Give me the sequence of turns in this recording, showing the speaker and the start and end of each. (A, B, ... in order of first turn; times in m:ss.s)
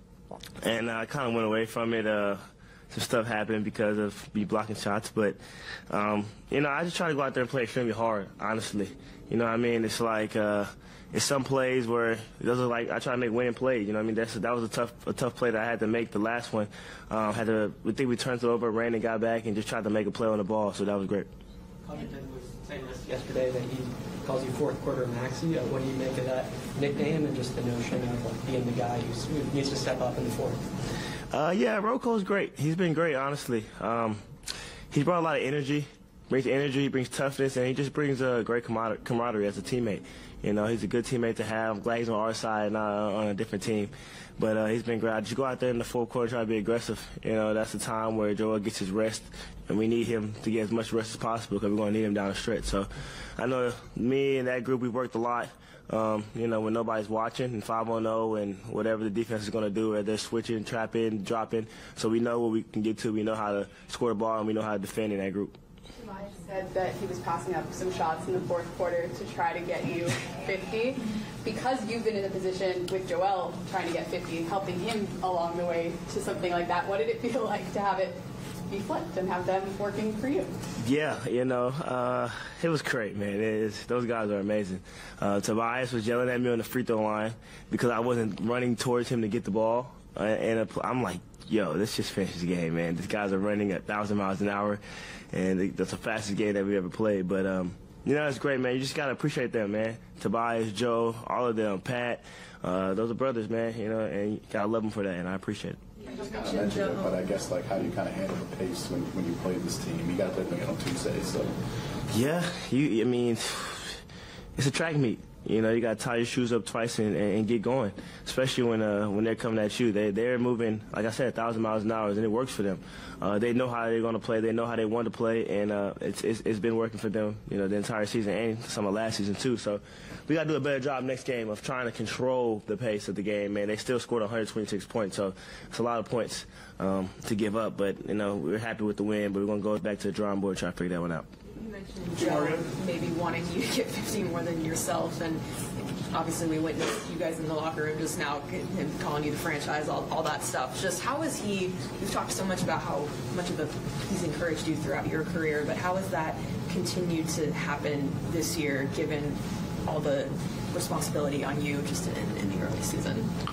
0:00.6-0:21.3 A
0:21.8-0:30.6 B
0:31.3-0:34.3 A
0:34.9-1:05.5 A
1:06.0-1:20.5 C
1:20.8-1:34.8 A
1:35.3-1:45.8 A
1:46.0-1:47.2 D
1:46.1-1:51.5 E
1:52.1-1:54.0 A
1:54.6-2:21.3 A
2:21.5-2:43.3 D